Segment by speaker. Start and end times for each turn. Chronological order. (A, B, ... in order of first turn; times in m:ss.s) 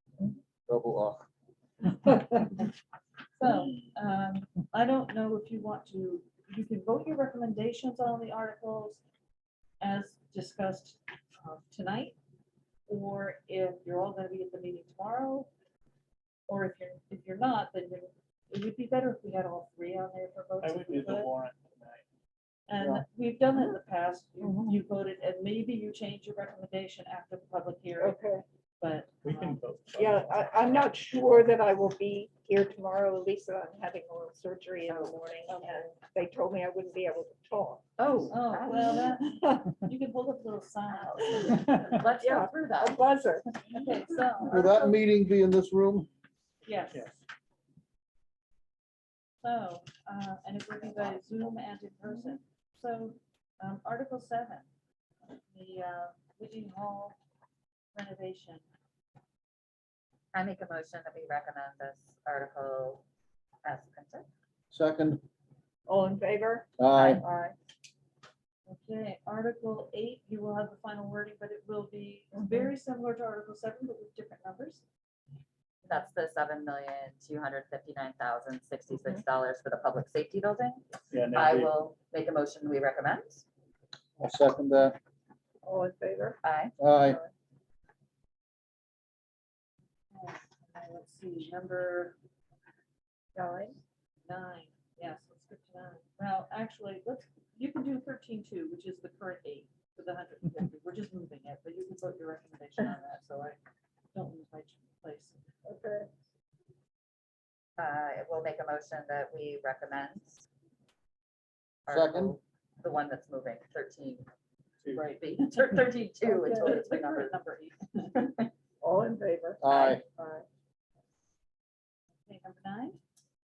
0:00.7-0:01.2 A
0:03.4-0:09.0 B
0:09.8-0:12.2 B
0:12.9-0:15.5 B
0:16.5-0:21.3 B
0:20.6-0:22.0 C
0:22.7-0:28.2 B
0:22.8-0:23.0 A
0:24.4-0:24.8 D
0:28.0-0:28.4 D
0:28.8-0:29.6 B
0:29.2-0:31.0 C
0:30.0-0:37.8 D
0:34.9-0:35.6 E
0:38.0-0:39.2 E
0:38.3-0:42.1 B
0:38.7-0:39.6 D
0:40.9-0:43.0 E
0:41.5-0:42.0 C
0:42.2-0:43.8 D
0:43.7-0:44.6 B
0:44.5-0:46.1 A
0:44.5-0:44.9 D
0:46.6-0:47.1 B
0:46.9-0:47.2 C
0:49.4-0:54.7 B
0:55.5-0:57.1 B
0:57.9-0:58.6 B
1:00.3-1:03.0 E
1:03.6-1:04.3 E
1:04.7-1:05.2 A
1:05.9-1:07.5 D
1:06.8-1:07.2 A
1:08.6-1:14.8 B
1:12.3-1:12.7 D
1:15.8-1:23.4 E
1:21.1-1:21.8 C
1:24.2-1:25.0 A
1:25.6-1:26.4 D
1:26.4-1:26.8 E
1:26.8-1:27.2 A
1:27.0-1:27.3 D
1:30.1-1:32.2 B
1:33.3-1:33.8 D
1:34.2-1:43.6 B
1:44.1-1:45.4 B
1:45.6-1:46.1 D
1:47.8-1:50.4 E
1:51.9-1:54.3 E
1:51.9-1:52.4 A
1:54.9-1:58.1 B
1:55.2-1:57.3 E
1:56.2-1:56.8 D
1:58.1-1:58.5 E
1:58.8-1:59.6 D
1:59.6-2:00.0 A
1:59.7-2:00.0 E
2:00.2-2:00.4 D
2:02.2-2:03.0 B